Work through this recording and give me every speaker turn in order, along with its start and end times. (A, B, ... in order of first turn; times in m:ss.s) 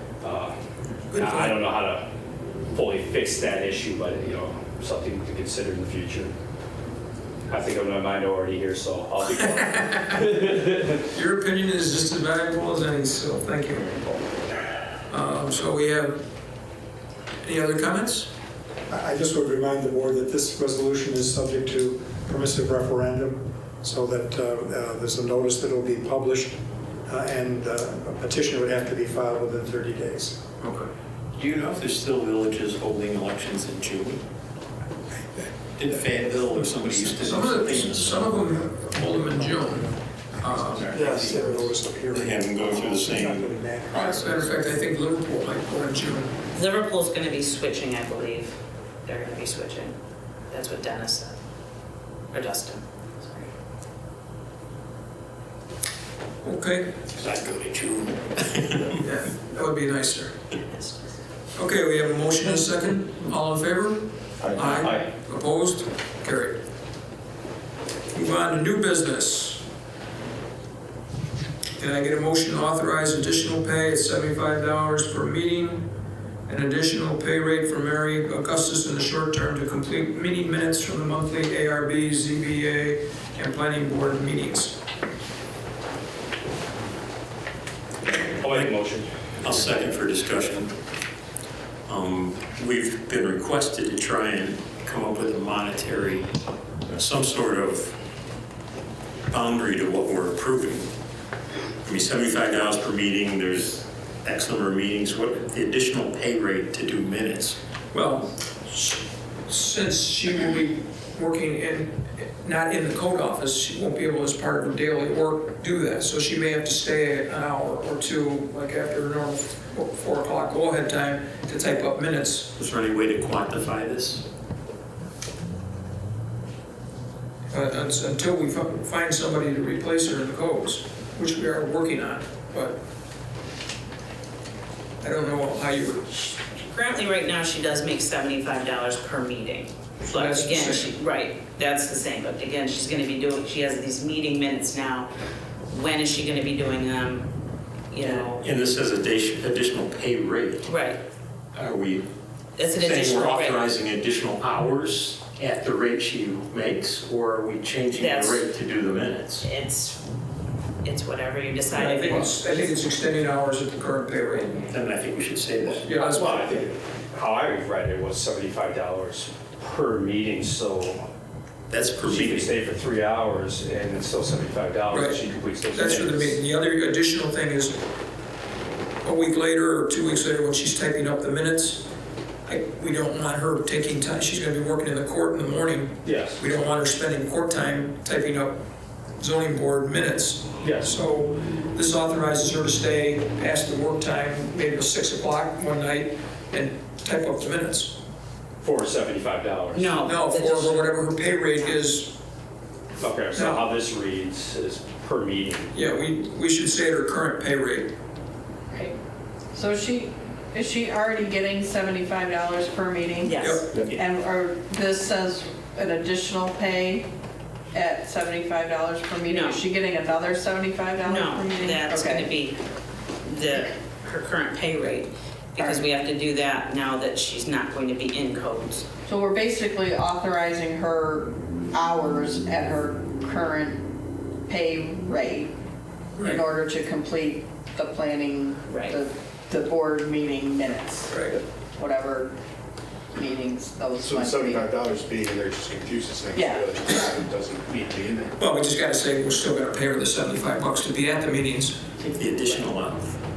0:00.2-0:00.6 A
0:01.1-0:01.6 B
0:01.1-0:02.1 A
0:02.7-0:06.3 A
0:07.5-0:11.0 A
0:09.9-0:10.2 B
0:11.1-0:14.1 B
0:15.1-0:16.2 B
0:17.4-0:18.3 B
0:18.9-0:30.4 C
0:30.6-0:34.2 D
0:35.8-0:38.3 D
0:37.0-0:44.7 C
0:37.2-0:41.0 B
0:40.8-0:44.1 D
0:44.0-0:46.3 B
0:46.5-0:50.0 E
0:50.5-0:51.4 E
0:52.3-0:53.5 E
0:56.4-0:57.0 B
0:57.1-0:59.0 D
0:59.0-1:00.3 B
1:00.6-1:01.2 E
1:01.6-1:06.6 B
1:04.4-1:05.0 F
1:08.1-1:09.6 B
1:11.8-1:15.9 B
1:16.5-1:24.8 B
1:28.2-1:29.0 A
1:28.5-1:28.7 D
1:29.4-1:30.7 D
1:31.9-1:36.3 D
1:36.9-1:38.0 D
1:39.3-1:40.9 D
1:41.8-1:47.6 D
1:47.9-2:02.5 B
2:02.6-2:04.2 D
2:07.5-2:12.8 B
2:15.0-2:16.0 B
2:16.3-2:25.1 E
2:20.0-2:20.9 B
2:25.7-2:27.3 E
2:27.9-2:28.4 E
2:28.0-2:30.7 D
2:30.6-2:31.0 E
2:31.5-2:32.1 D
2:32.6-2:33.6 E
2:32.7-2:39.4 D
2:37.9-2:38.5 E
2:39.4-2:40.0 E
2:40.8-2:42.8 E
2:41.7-2:44.7 B
2:44.7-2:45.9 D
2:45.8-2:46.6 B
2:46.0-2:51.1 A
2:51.7-2:52.5 D
2:52.0-2:56.4 A
2:54.9-2:57.8 B
2:59.0-3:01.9 B
3:02.4-3:08.6 B
3:06.0-3:06.4 A
3:09.2-3:18.0 B
3:10.6-3:11.0 A
3:18.6-3:20.0 A
3:19.7-3:21.0 E
3:20.0-3:22.2 B
3:23.0-3:25.7 A
3:23.3-3:23.6 B
3:25.7-3:27.9 B
3:28.7-3:29.0 G
3:29.5-3:37.1 G
3:33.2-3:33.6 E
3:33.4-3:33.7 B
3:37.7-3:42.3 G
3:39.2-3:39.6 E
3:41.0-3:42.6 E
3:43.2-3:48.8 E
3:45.6-3:45.8 G
3:49.0-3:53.8 G
3:54.5-3:55.5 G
3:56.2-3:56.4 B
3:56.2-4:02.3 G
3:58.7-3:59.0 E
4:01.1-4:01.4 B
4:03.1-4:04.7 G
4:04.1-4:08.3 F
4:06.3-4:06.9 G
4:08.4-4:11.8 B
4:12.0-4:13.2 D